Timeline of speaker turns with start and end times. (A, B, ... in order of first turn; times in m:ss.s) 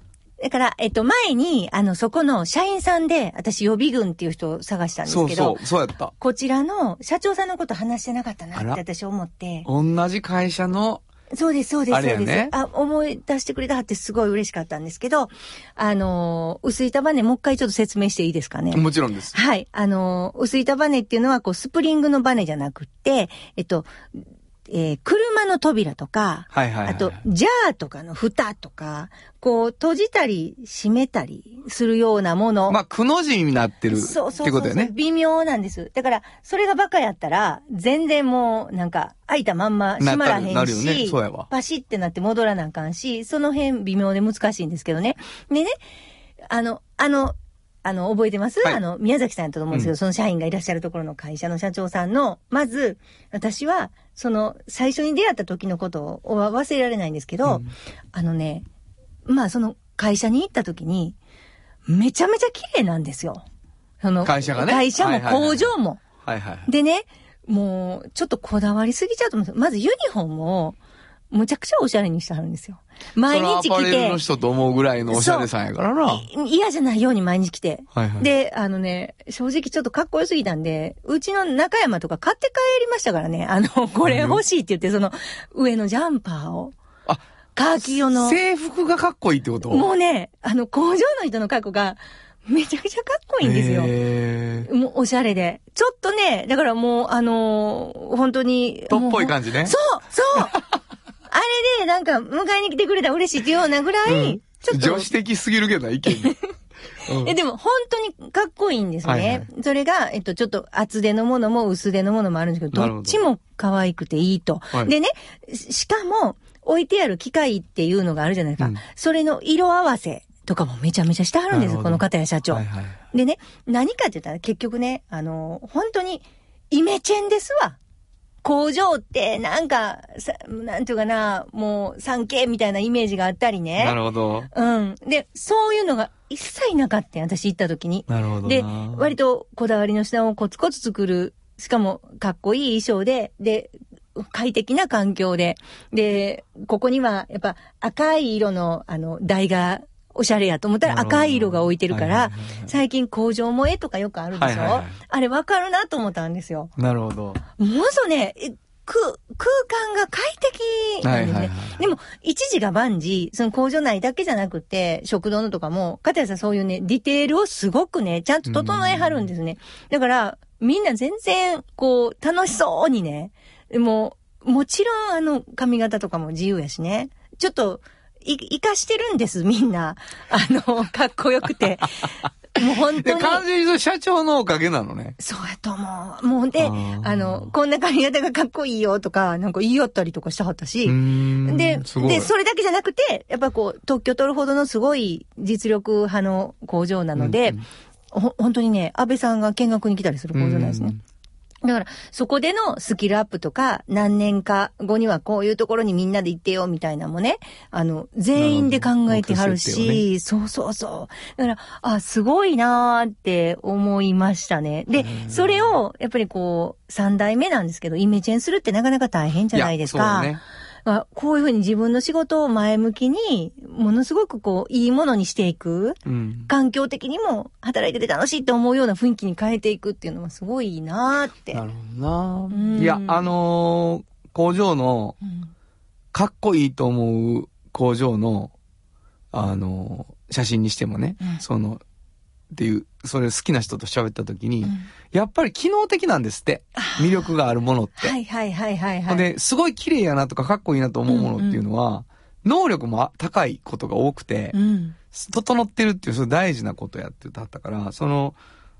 0:00.4-0:05.6 A
0:05.0-0:06.1 B
0:06.2-0:09.7 A
0:08.5-0:08.8 B
0:09.6-0:11.0 B
0:11.3-0:18.8 A
0:11.9-0:12.5 B
0:18.7-0:19.4 B
0:19.3-0:32.8 A
0:26.5-0:27.2 B
0:32.7-0:34.9 B
0:33.9-0:45.8 A
0:40.0-0:41.5 B
0:46.5-0:58.6 A
0:57.4-0:57.7 B
0:59.2-1:01.2 A
1:01.9-1:03.4 A
1:04.0-1:06.0 A
1:04.2-1:05.7 B
1:06.2-1:06.7 B
1:06.7-1:10.8 A
1:11.3-1:14.2 A
1:13.3-1:16.3 B
1:15.1-1:15.5 A
1:16.1-1:26.7 A
1:17.9-1:18.3 B
1:24.0-1:24.4 B
1:27.6-1:28.4 A
1:27.8-1:29.9 B
1:29.7-1:33.9 A
1:33.4-1:34.7 B
1:34.6-1:40.6 A
1:38.9-1:39.8 B
1:41.3-1:45.1 A
1:44.0-1:46.4 B
1:46.1-1:46.3 A
1:47.0-1:47.3 B
1:47.2-2:07.8 A
1:49.0-1:49.4 B
1:52.7-1:53.2 B
2:01.5-2:03.0 B
2:08.4-2:14.0 A
2:13.8-2:14.5 B
2:14.5-2:36.7 A
2:18.1-2:19.1 B
2:30.8-2:32.7 B
2:34.4-2:35.0 B
2:36.8-2:37.4 B
2:37.6-3:03.4 A
2:41.0-2:41.8 B
2:48.4-2:49.3 B
3:03.0-3:05.2 B
3:05.2-3:17.6 A
3:06.6-3:07.5 B
3:10.8-3:12.3 B
3:17.2-3:17.6 B
3:18.1-3:20.9 A
3:20.3-3:21.0 B
3:21.6-3:40.3 A
3:28.4-3:30.0 B
3:35.0-3:35.7 B
3:39.5-3:40.4 B
3:40.8-3:51.6 A
3:46.0-3:46.5 B
3:51.5-3:55.2 B
3:52.5-3:53.2 A
3:56.1-3:58.5 B
3:59.3-4:01.8 B
4:02.5-4:08.1 B
4:04.6-4:04.9 A
4:06.8-4:07.3 A
4:08.0-4:09.3 A
4:09.1-4:14.6 B
4:11.1-4:11.6 A
4:14.5-4:15.0 A
4:15.1-4:18.4 B